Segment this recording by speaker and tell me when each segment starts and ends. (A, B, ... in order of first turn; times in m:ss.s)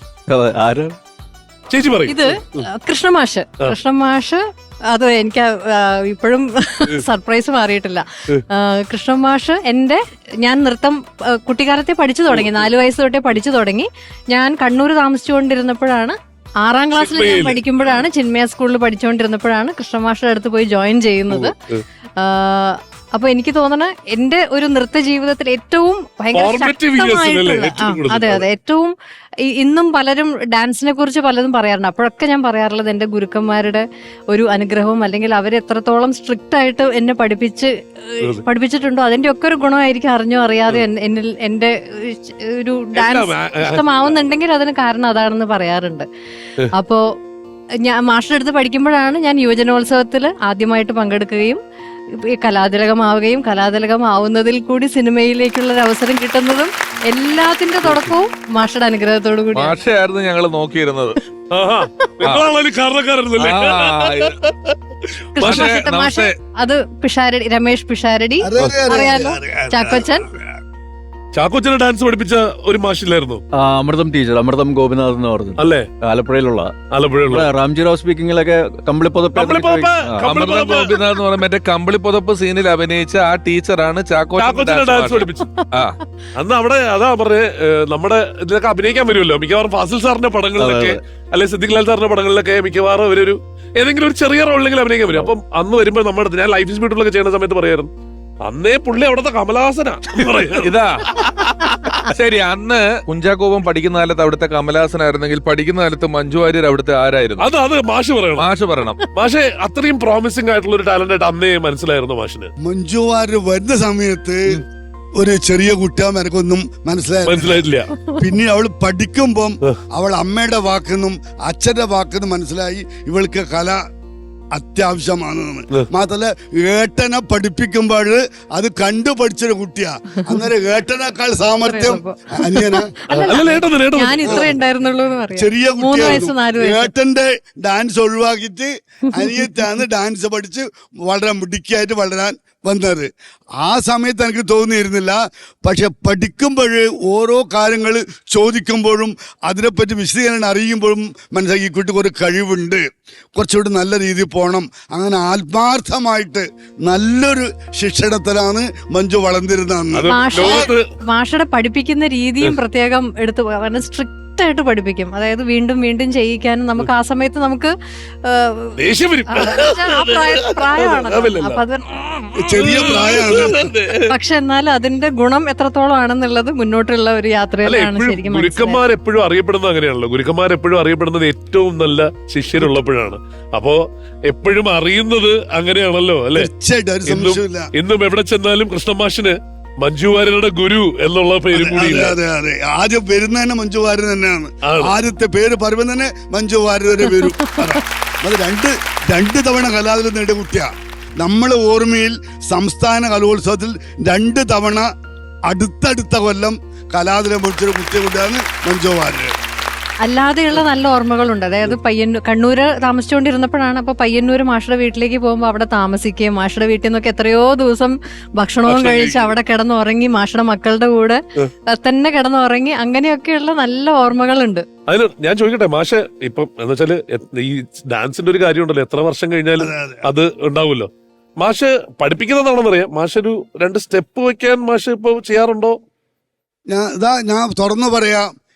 0:00.3-0:01.0 A
0:01.7-0:02.7 B
0:02.1-0:21.5 C
0:12.3-0:12.7 B
0:17.0-0:18.0 B
0:21.3-0:21.8 B
0:22.2-0:46.1 C
0:26.3-0:28.5 B
0:43.0-0:44.2 B
0:46.8-0:47.0 C
0:47.9-0:51.6 C
0:52.3-0:59.8 C
0:57.8-0:58.1 B
0:59.6-1:01.2 D
1:01.5-1:04.8 B
1:03.4-1:04.3 D
1:05.4-1:10.3 C
1:05.4-1:05.7 B
1:05.4-1:06.3 D
1:08.4-1:10.5 E
1:08.6-1:08.9 B
1:11.3-1:13.4 B
1:13.5-1:16.7 A
1:15.6-1:15.9 B
1:16.9-1:17.5 B
1:17.3-1:20.3 A
1:19.4-1:21.0 B
1:20.2-1:26.0 D
1:24.4-1:25.5 B
1:26.4-1:37.9 B
1:30.6-1:31.0 A
1:38.4-1:41.3 B
1:40.3-1:41.3 D
1:42.1-1:47.4 D
1:47.4-1:48.5 B
1:48.4-1:49.0 D
1:49.2-1:52.5 B
1:52.6-1:54.6 E
1:55.2-2:03.8 E
1:57.3-1:57.9 B
2:04.5-2:13.3 E
2:11.7-2:16.9 C
2:13.1-2:14.6 B
2:14.2-2:14.6 E
2:15.4-2:23.1 E
2:19.2-2:19.4 C
2:23.6-2:32.8 E
2:33.4-2:40.7 E
2:39.9-2:40.8 B
2:40.1-2:47.7 C
2:48.3-2:48.7 C
2:48.8-2:51.6 B
2:49.3-2:52.3 C
2:52.4-2:53.7 E
2:52.5-2:54.1 B
2:54.1-2:58.8 C
2:57.7-3:06.5 B
3:06.4-3:07.7 E
3:07.1-3:12.2 B
3:11.5-3:24.9 E
3:14.7-3:15.0 B
3:25.5-3:29.3 E
3:30.0-3:44.6 C
3:38.7-3:39.4 B
3:44.9-3:50.9 B
3:49.6-3:50.1 E
3:51.4-3:55.8 B
3:56.7-3:58.3 E